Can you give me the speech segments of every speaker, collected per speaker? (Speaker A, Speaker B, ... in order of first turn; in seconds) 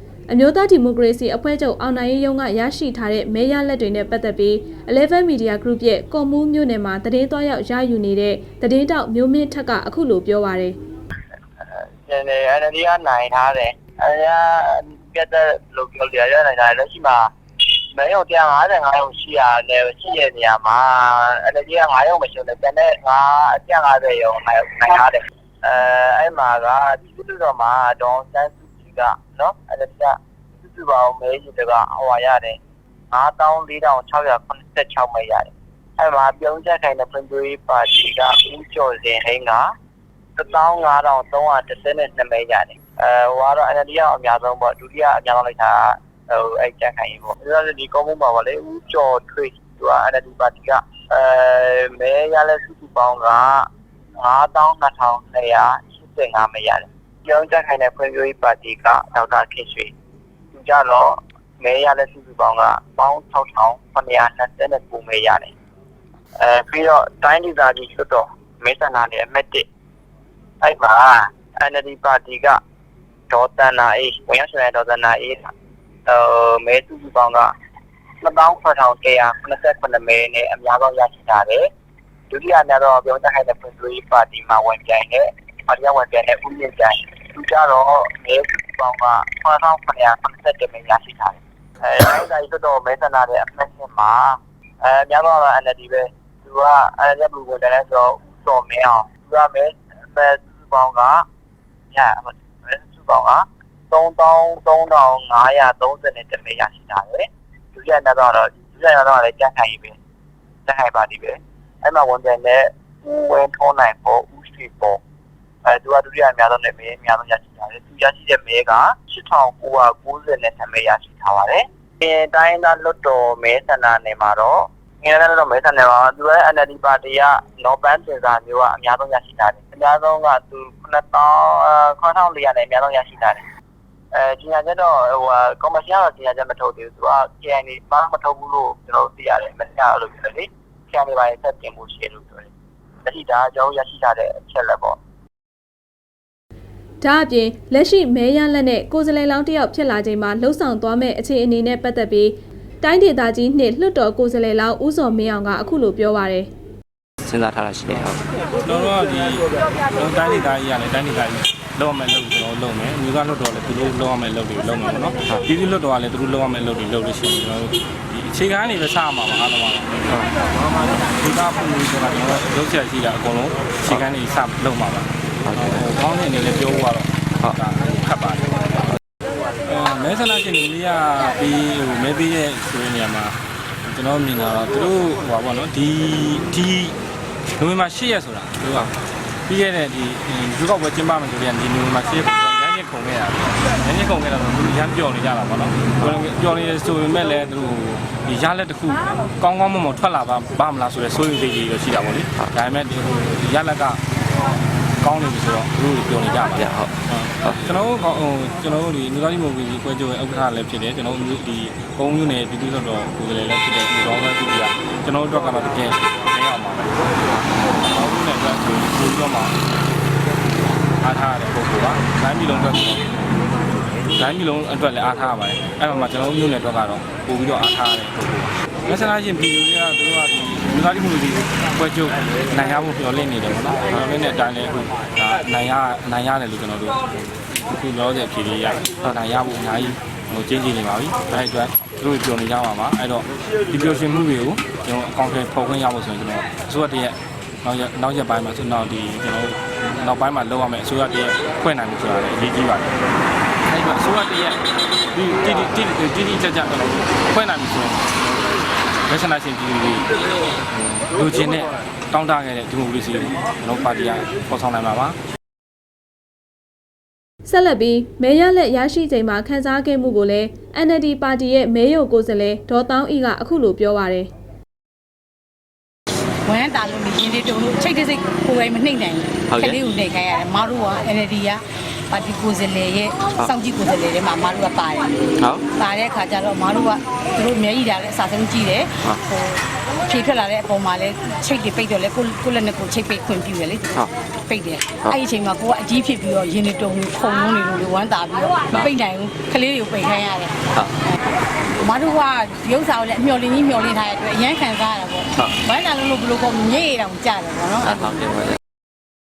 Speaker A: 0.3-10.8, 147.0-156.5, 267.4-274.3
Speaker B: 12.1-17.3, 17.9-32.6, 33.1-39.7, 40.4-53.7, 54.2-59.9, 60.5-65.5, 66.4-69.7, 70.6-72.6, 73.3-75.5, 76.1-77.5, 78.2-81.7, 82.3-101.2, 101.9-110.0, 110.7-115.0, 115.7-133.4, 134.1-142.5, 143.1-145.0
Speaker C: 157.2-158.2, 175.5-175.8, 206.6-206.9, 279.5-279.8, 307.9-308.6
Speaker D: 158.6-170.1, 170.6-178.6, 179.7-187.0, 187.6-188.9, 189.5-204.0, 205.0-217.0, 217.8-219.6, 221.0-223.1, 224.1-237.0, 237.7-253.0, 253.6-258.3, 259.1-260.1, 260.7-265.2
Speaker E: 276.4-301.2, 301.8-308.4